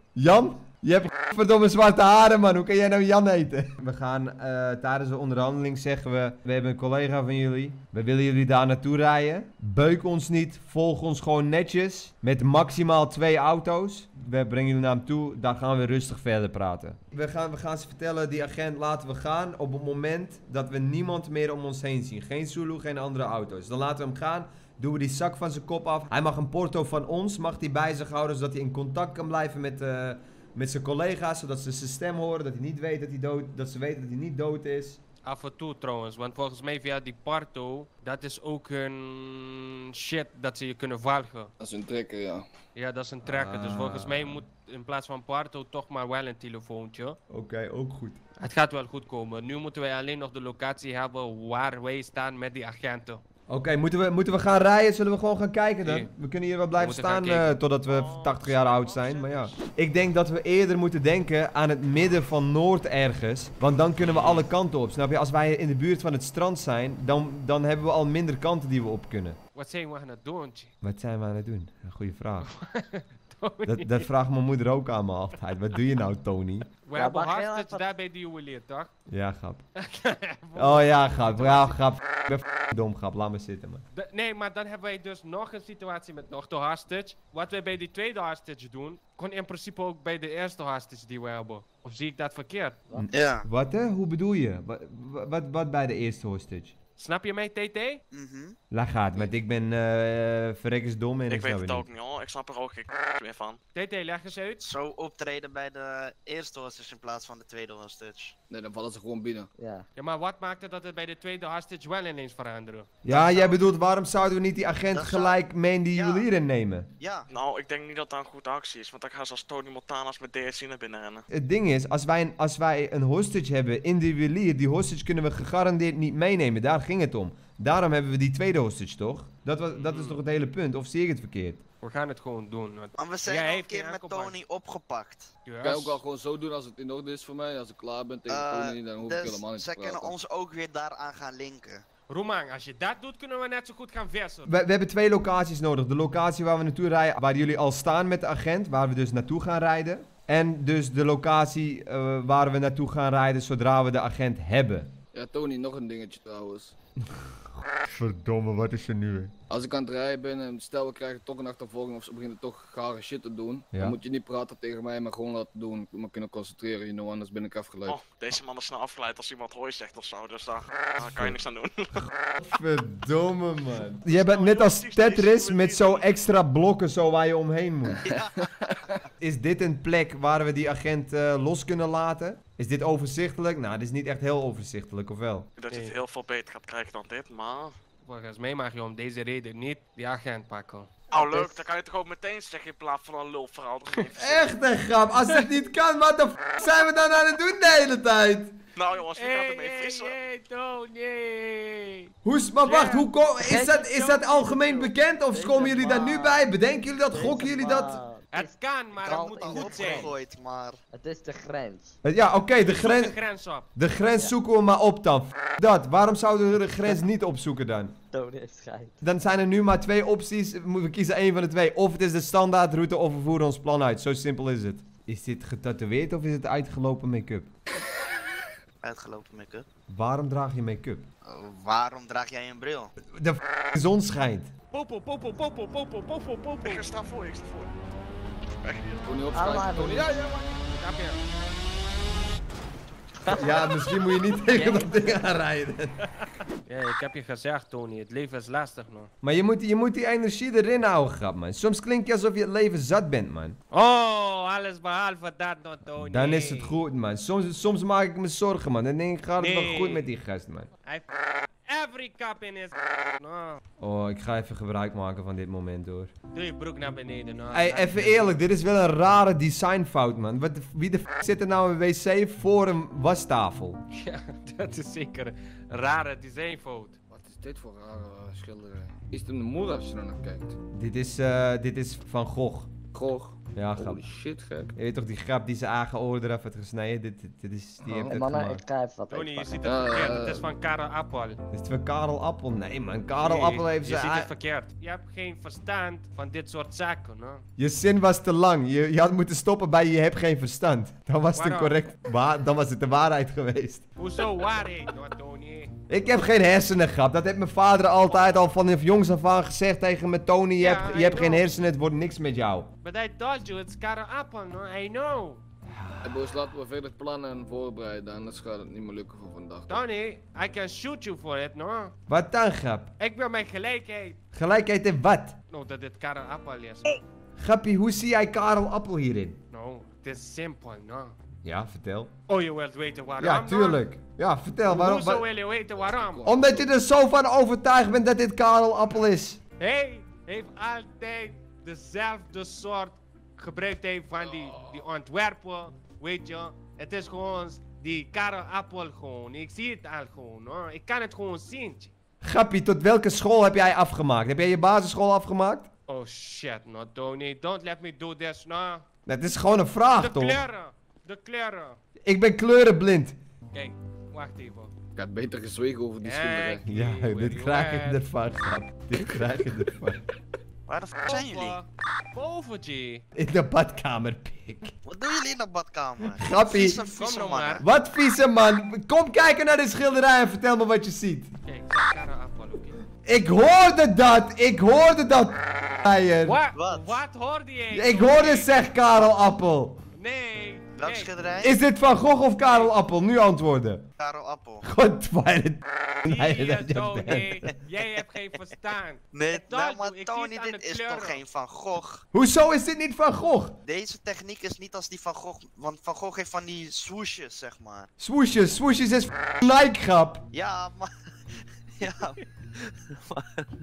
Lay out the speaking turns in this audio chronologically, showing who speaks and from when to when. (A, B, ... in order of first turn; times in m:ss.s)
0:00.2-0:35.0 A
0:35.2-0:41.5 B
0:41.6-0:42.4 C
0:42.8-0:47.2 B
0:43.2-0:44.5 A
0:47.3-0:48.2 A
0:48.4-0:53.2 B
0:53.5-1:09.4 A
0:55.8-0:56.1 B
0:56.8-0:57.6 B
0:57.9-0:59.5 D
1:04.1-1:04.4 B
1:09.6-1:10.7 B
1:10.8-1:12.5 A
1:12.4-1:14.1 B
1:13.6-1:16.7 A
1:16.8-1:18.9 B
1:16.9-1:17.9 E
1:19.1-1:19.6 A
1:19.8-1:21.8 B
1:20.6-1:23.8 A
1:23.9-1:32.8 B
1:32.9-1:36.8 A
1:33.1-1:33.4 D
1:37.0-1:38.0 B
1:38.1-1:38.6 D
1:38.7-1:41.9 A
1:41.3-1:43.6 F
1:43.7-1:44.6 B
1:44.6-1:48.4 D
1:48.5-1:49.5 C
1:49.6-1:49.9 E
1:50.0-1:53.3 B
1:53.0-1:56.9 A
1:53.2-1:53.5 D
1:54.9-1:55.4 D
1:55.9-1:56.3 D
1:57.0-1:57.3 D
1:57.3-2:01.3 F
2:01.3-2:11.6 A
2:09.8-2:10.2 B
2:11.8-2:14.4 B
2:13.0-2:15.3 D
2:15.4-2:16.0 B
2:15.6-2:20.2 C
2:18.3-2:21.9 D
2:22.1-2:24.5 B
2:24.5-2:34.9 A
2:35.1-2:36.7 C
2:37.1-2:39.3 A
2:39.5-2:48.0 C
2:47.9-2:52.4 F
2:51.0-2:51.4 A
2:52.4-2:58.0 A
2:54.1-2:56.1 F
2:58.0-2:58.7 D
2:58.4-2:58.9 C
2:59.2-3:05.5 A
3:05.6-3:07.8 F
3:08.0-3:11.1 B
3:11.1-3:14.5 F
3:11.2-3:11.6 E
3:14.2-3:18.6 A
3:18.8-3:20.2 F
3:19.2-3:22.1 B
3:22.2-3:28.0 A
3:22.7-3:23.1 B
3:23.4-3:26.5 E
3:27.1-3:30.2 E
3:28.3-3:30.1 B
3:29.0-3:30.8 D
3:30.9-3:32.0 E
3:32.0-3:33.2 A
3:32.6-3:33.7 B
3:33.8-3:38.0 A
3:38.1-3:39.0 E
3:39.0-3:47.5 A
3:48.8-3:49.7 D
3:49.9-3:51.1 A
3:51.2-3:52.9 D
3:53.0-3:54.5 A
3:54.7-3:56.8 B
3:56.6-3:57.7 F
3:58.6-3:59.0 F
3:59.0-4:00.4 C
3:59.3-4:00.2 E
4:00.7-4:01.2 B
4:03.2-4:03.7 E
4:03.3-4:06.0 A
4:04.5-4:05.2 E
4:06.7-4:09.1 B
4:09.2-4:13.6 A
4:13.7-4:16.8 B
4:15.9-4:20.7 A
4:19.4-4:20.1 B
4:20.8-4:21.1 B
4:21.6-4:23.6 B
4:23.8-4:26.1 A
4:26.3-4:28.4 B
4:27.5-4:33.8 A
4:33.9-4:37.0 B
4:37.1-4:40.6 C
4:40.7-4:42.7 A
4:42.9-4:44.7 C
4:43.6-4:44.0 A
4:44.8-4:48.6 A
4:47.8-4:48.2 C
4:48.0-4:49.9 E
4:49.1-4:51.4 B
4:49.6-4:50.5 C
4:51.5-4:54.3 A
4:53.2-4:57.4 B
4:57.6-5:03.9 A
5:01.4-5:01.9 B
5:04.0-5:05.7 B
5:05.9-5:12.7 A
5:10.6-5:11.5 B
5:12.8-5:15.4 B
5:15.7-5:16.2 A
5:16.0-5:19.8 C
5:19.7-5:21.9 B
5:22.1-5:22.9 A
5:23.0-5:24.2 B
5:24.3-5:25.4 A
5:25.5-5:27.0 B
5:27.4-5:29.4 A
5:29.5-5:31.2 B
5:31.4-5:32.1 A
5:32.3-5:33.8 B
5:33.2-5:35.3 A
5:34.7-5:36.3 B
5:35.8-5:36.7 C
5:36.2-5:39.4 A
5:39.6-5:51.9 B
5:52.2-5:55.7 A
5:55.9-5:58.9 B
5:59.1-6:00.4 A
6:00.0-6:01.8 B
6:02.0-6:03.2 A
6:03.5-6:04.7 B
6:05.0-6:06.6 C
6:06.0-6:08.0 B
6:06.7-6:10.0 A
6:10.7-6:11.6 D
6:11.0-6:13.0 B
6:13.2-6:14.7 A
6:14.8-6:17.6 D
6:16.2-6:16.8 A
6:17.0-6:17.6 B
6:17.6-6:21.3 A
6:21.4-6:22.8 B
6:23.0-6:26.4 A
6:26.2-6:28.5 B
6:26.6-6:27.0 D
6:27.7-6:29.8 A
6:30.0-6:31.1 B
6:30.8-6:31.6 D
6:31.4-6:33.9 A
6:34.0-6:34.6 D
6:34.6-6:37.5 A
6:36.0-6:41.2 B
6:39.1-6:42.1 D
6:42.1-6:43.6 A
6:43.6-6:47.9 D
6:48.0-6:50.2 A
6:50.3-6:50.9 D
6:51.8-6:53.0 D